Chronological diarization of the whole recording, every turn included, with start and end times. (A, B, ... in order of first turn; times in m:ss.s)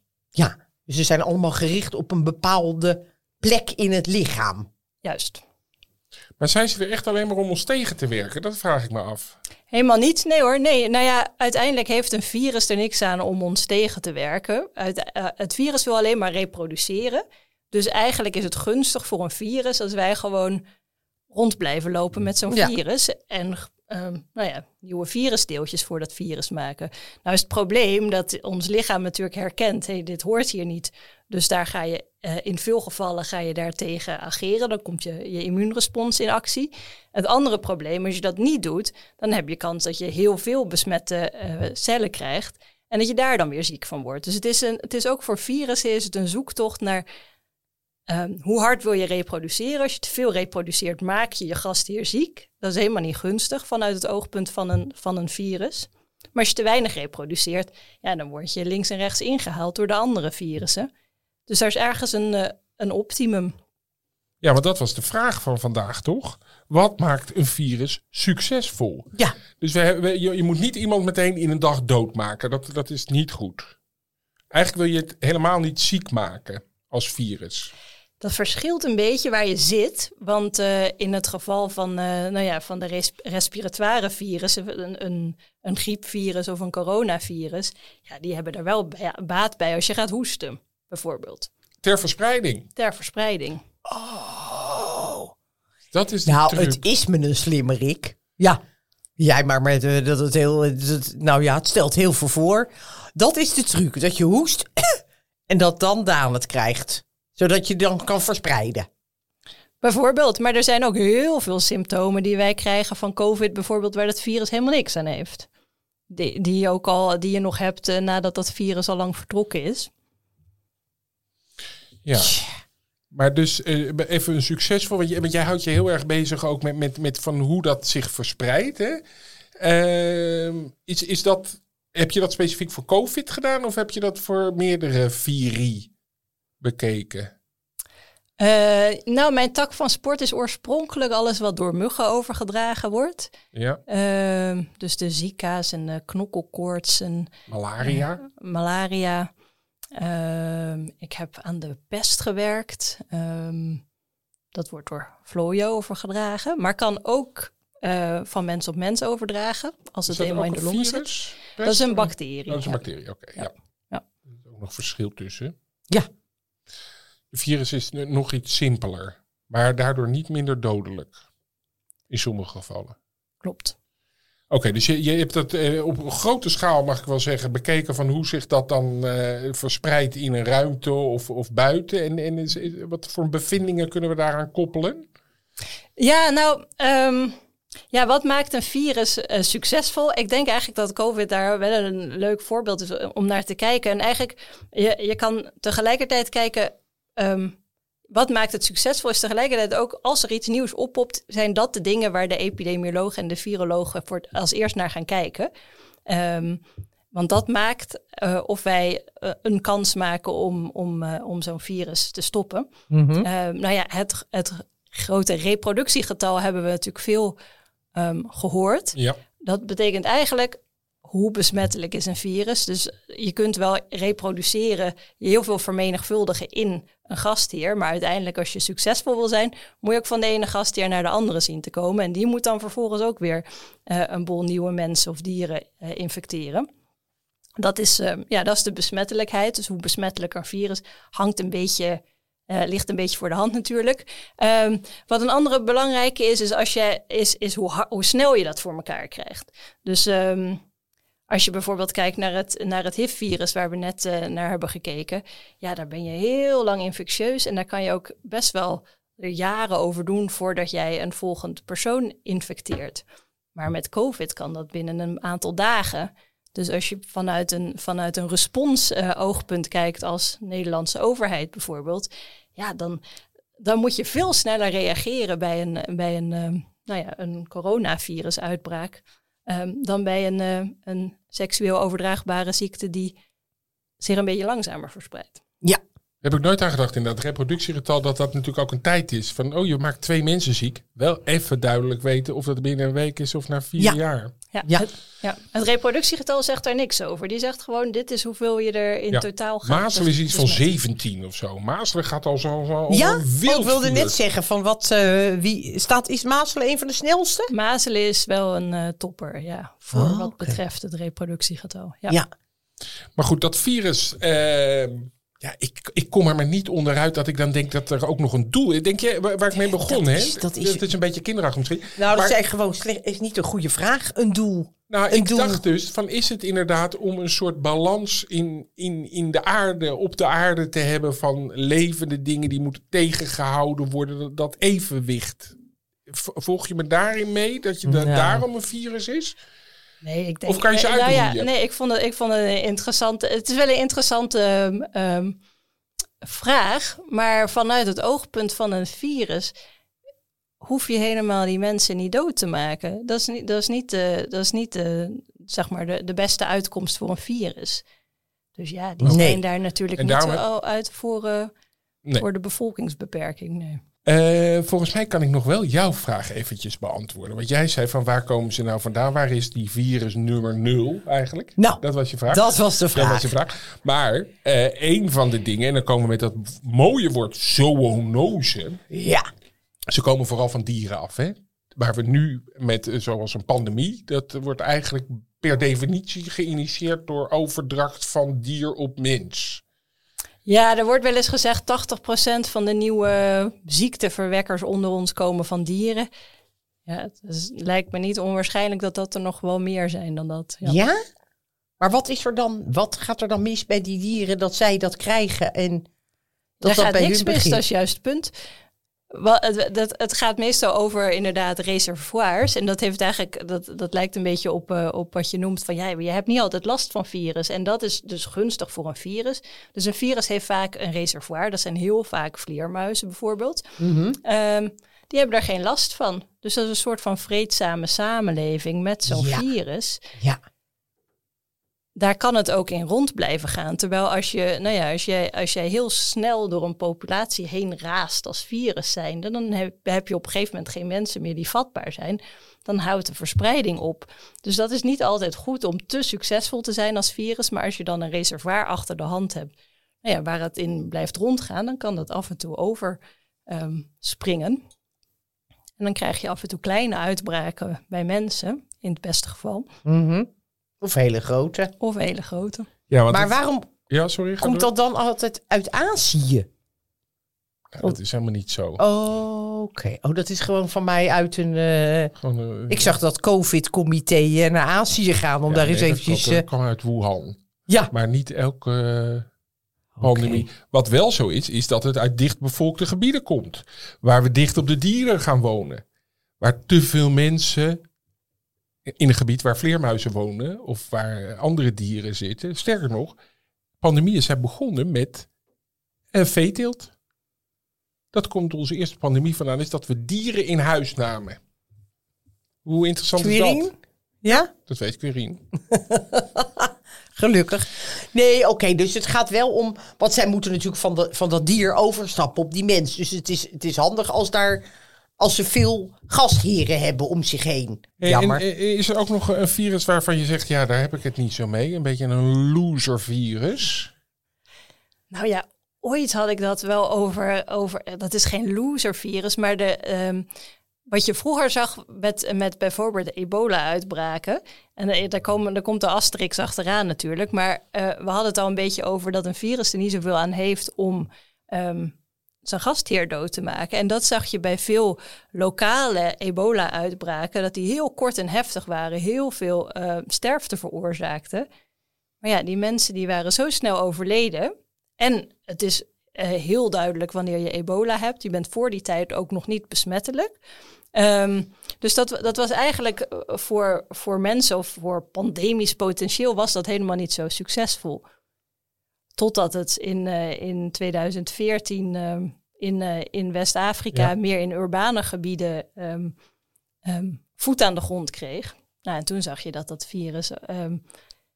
0:00.4-0:04.7 A
0:05.0-0:05.4 B
0:06.4-0:09.4 C
0:09.7-0:20.6 B
0:21.3-0:47.0 B
0:48.1-1:00.9 B
1:01.5-1:03.5 B
1:04.4-1:13.7 C
1:14.5-1:17.7 C
1:18.2-1:31.5 B
1:31.8-1:32.7 C
1:32.8-1:33.6 B
1:33.8-1:35.3 A
1:35.9-1:36.8 C
1:36.3-1:38.6 A
1:39.2-1:48.9 A
1:49.8-1:55.5 B
1:56.1-1:59.9 B
2:02.0-2:02.4 C
2:03.1-2:09.0 C
2:09.6-2:15.9 C
2:16.6-2:17.3 C
2:18.4-2:23.3 B
2:23.5-2:23.8 C
2:23.9-2:27.3 B
2:27.5-2:28.2 C
2:27.8-2:29.3 B
2:30.0-2:33.8 B
2:34.5-2:42.8 B
2:40.1-2:43.5 C
2:43.4-2:44.0 B
2:44.4-2:45.5 C
2:47.3-2:51.2 C
2:52.1-2:53.0 C
2:53.4-2:53.8 B
2:54.5-3:05.1 C
3:06.0-3:07.4 B
3:07.9-3:17.6 B
3:18.1-3:25.5 B
3:26.1-3:26.6 B
3:27.1-3:32.7 B
3:32.9-3:33.3 A
3:33.2-3:37.4 B
3:38.0-3:56.7 B
3:57.6-4:10.6 B
4:11.3-4:23.0 B
4:23.6-4:33.0 B
4:33.6-4:43.1 B
4:44.0-4:45.4 B
4:46.2-4:54.3 C
4:54.5-5:00.7 B
4:59.1-5:04.2 C
5:02.9-5:07.5 A
5:07.5-5:12.2 B
5:09.9-5:10.6 A
5:13.2-5:22.4 C
5:19.6-5:20.8 A
5:22.0-5:25.6 A
5:24.9-5:35.6 C
5:36.1-5:39.4 C
5:37.9-5:38.4 A
5:40.0-5:45.4 B
5:40.5-5:41.5 C
5:46.2-5:49.5 B
5:50.6-5:57.8 B
5:58.6-6:01.5 B
5:59.1-5:59.4 A
6:00.0-6:00.4 C
6:02.2-6:03.8 B
6:04.1-6:18.8 C
6:11.6-6:13.3 A
6:18.9-6:19.3 A
6:19.9-6:29.6 C
6:30.5-6:36.1 B
6:36.9-6:40.8 B
6:40.6-6:41.0 A
6:41.8-6:45.8 A
6:46.6-6:48.3 B
6:46.6-6:47.6 A
6:49.1-7:03.7 B
7:03.8-7:04.2 A
7:04.2-7:10.0 B
7:09.1-7:09.4 A
7:12.0-7:29.5 B
7:30.0-7:34.6 B
7:35.8-7:39.7 B
7:39.8-7:40.3 A
7:40.8-7:41.7 A
7:41.8-7:42.7 B
7:42.9-7:43.3 C
7:43.1-7:43.7 A
7:43.9-7:44.7 C
7:44.4-7:46.5 A
7:47.7-7:48.8 C
7:48.8-7:52.1 A
7:52.2-7:53.0 C
7:52.7-7:56.4 A
7:55.5-7:59.3 C
8:00.0-8:00.4 A
8:00.0-8:05.8 C
8:06.4-8:07.8 C
8:08.9-8:13.2 C
8:13.8-8:15.3 C
8:16.1-8:16.9 C
8:18.1-8:21.4 C
8:22.6-8:23.7 C
8:23.2-8:24.5 A
8:24.6-8:25.4 C
8:25.7-8:34.6 A
8:35.2-8:38.4 A
8:38.0-8:43.9 C
8:45.1-8:50.3 B
8:50.9-9:11.5 B
9:12.2-9:20.3 B
9:21.0-9:28.0 B
9:29.2-9:36.2 B
9:36.8-9:40.8 B